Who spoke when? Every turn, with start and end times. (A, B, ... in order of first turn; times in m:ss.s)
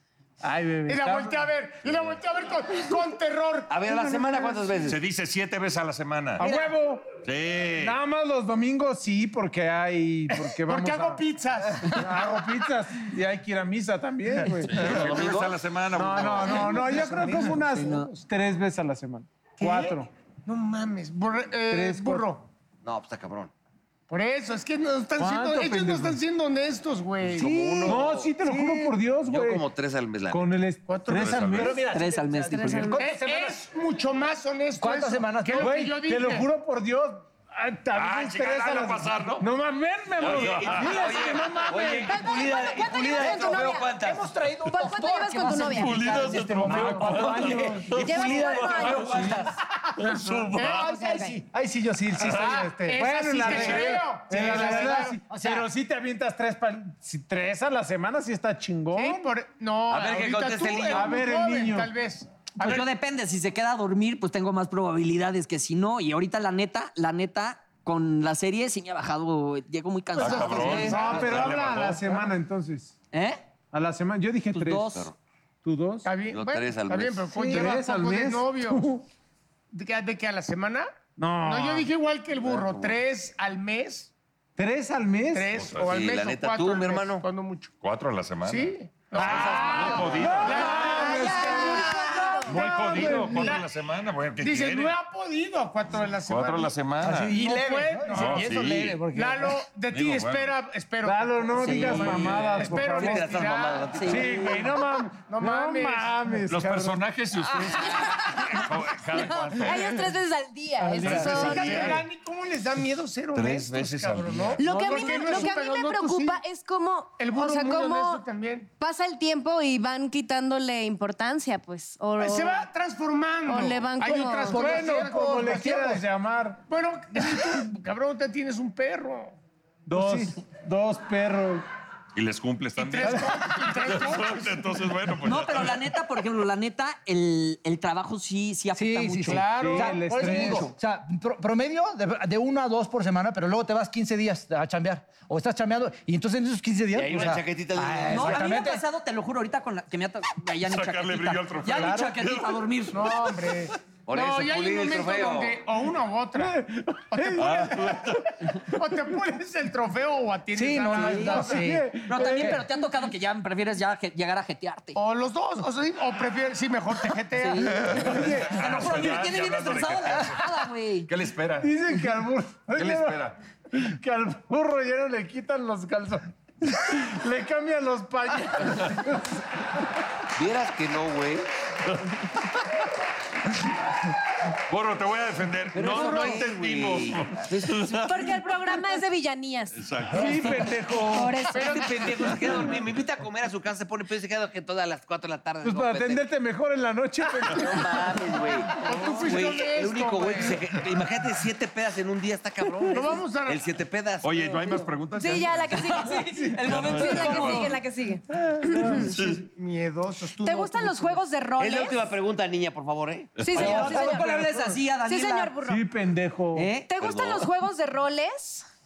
0:00.4-0:01.5 A
0:00.9-0:04.6 B
0:03.7-0:05.0 C
0:04.8-0:06.5 D
0:06.4-0:07.1 A
0:07.2-0:08.0 D
0:07.8-0:11.2 A
0:10.6-0:12.4 B
0:11.8-0:15.3 A
0:14.7-0:16.8 D
0:14.8-0:15.5 C
0:15.9-0:20.1 A
0:16.2-0:17.5 B
0:17.7-0:18.1 E
0:19.6-0:22.5 B
0:21.7-0:22.3 A
0:22.8-0:23.5 C
0:24.1-0:28.0 B
0:25.2-0:26.2 A
0:27.2-0:28.3 C
0:27.3-0:29.0 F
0:27.9-0:29.7 A
0:29.2-0:30.5 C
0:30.3-0:33.0 A
0:30.9-0:31.7 B
0:31.1-0:31.9 D
0:31.6-0:33.6 F
0:31.9-0:33.0 E
0:33.0-0:36.5 B
0:34.8-0:35.8 F
0:35.5-0:42.1 A
0:37.9-0:39.5 D
0:40.2-0:41.0 D
0:40.2-0:44.3 C
0:41.0-0:42.1 B
0:42.0-0:44.0 G
0:42.3-0:48.4 F
0:44.6-0:46.2 G
0:45.6-0:49.2 D
0:46.1-0:49.2 A
0:47.9-0:49.5 G
0:48.2-0:49.3 C
0:50.0-0:50.9 D
0:50.5-0:51.0 B
0:50.6-0:55.6 F
0:50.7-0:51.4 G
0:52.2-0:59.3 A
0:52.2-0:55.2 B
0:58.9-1:02.9 B
0:59.9-1:01.1 C
1:00.9-1:01.9 A
1:02.6-1:11.0 E
1:10.2-1:12.2 D
1:10.2-1:11.6 B
1:10.3-1:12.9 A
1:13.1-1:13.4 E
1:13.7-1:15.0 A
1:14.5-1:15.1 E
1:15.6-1:16.2 A
1:16.0-1:19.0 B
1:16.3-1:17.3 C
1:17.3-1:19.0 A
1:19.7-1:24.1 B
1:21.2-1:21.9 A
1:22.4-1:22.9 C
1:24.6-1:25.5 A
1:25.3-1:27.7 B
1:25.5-1:25.9 D
1:25.8-1:27.2 C
1:27.8-1:30.9 D
1:28.5-1:33.7 B
1:29.2-1:33.6 A
1:30.4-1:32.6 G
1:32.5-1:35.0 D
1:34.4-1:36.7 B
1:36.3-1:37.4 D
1:37.0-1:39.6 F
1:37.3-1:46.2 B
1:38.1-1:39.0 D
1:39.9-1:40.6 D
1:41.0-1:43.4 A
1:41.8-1:44.6 C
1:44.0-1:47.0 A
1:46.5-1:50.2 D
1:47.9-1:52.0 G
1:50.8-1:52.0 A
1:51.0-1:52.0 D
1:51.2-1:56.4 B
1:53.3-1:54.8 D
1:54.6-1:58.2 G
1:54.8-1:55.4 A
1:57.2-1:58.7 B
1:58.8-2:02.7 G
2:02.2-2:06.0 B
2:03.5-2:04.7 G
2:04.5-2:06.6 A
2:04.6-2:06.0 F
2:06.7-2:09.4 B
2:09.9-2:11.6 A
2:09.9-2:10.4 F
2:12.2-2:15.9 D
2:12.8-2:14.7 B
2:15.2-2:20.7 E
2:18.8-2:28.8 F
2:19.3-2:20.0 B
2:19.4-2:20.7 A
2:26.9-2:28.5 C
2:28.1-2:33.2 E
2:30.6-2:32.7 D
2:31.7-2:32.2 F
2:32.9-2:38.1 B
2:34.1-2:35.6 C
2:36.4-2:37.7 A
2:37.4-2:38.3 D
2:38.6-2:41.7 B
2:40.5-2:42.6 F
2:40.9-2:42.6 A
2:41.0-2:41.4 E
2:42.0-2:45.0 E
2:45.0-2:48.1 B
2:47.4-2:51.1 E
2:47.9-2:51.8 D
2:48.0-2:48.4 A
2:51.6-2:59.2 A
2:52.8-2:53.4 D
3:00.3-3:01.5 C
3:04.7-3:08.4 D
3:05.8-3:08.2 C
3:05.8-3:06.6 B
3:08.1-3:09.8 G
3:09.8-3:10.7 D
3:10.1-3:11.5 A
3:10.3-3:12.2 G
3:11.5-3:12.4 B
3:11.5-3:16.2 C
3:15.6-3:18.3 A
3:17.5-3:24.8 C
3:18.8-3:20.6 B
3:22.9-3:23.6 B
3:24.2-3:25.9 D
3:25.2-3:29.1 G
3:25.8-3:27.8 E
3:26.6-3:27.8 D
3:28.6-3:29.1 A
3:28.9-3:31.2 B
3:28.9-3:29.4 D
3:30.4-3:32.0 G
3:31.6-3:33.6 C
3:33.4-3:33.9 D
3:33.4-3:35.8 G
3:33.5-3:35.5 E
3:33.8-3:34.3 A
3:35.6-3:36.7 A
3:36.6-3:36.9 E
3:36.8-3:38.7 G
3:37.0-3:37.5 C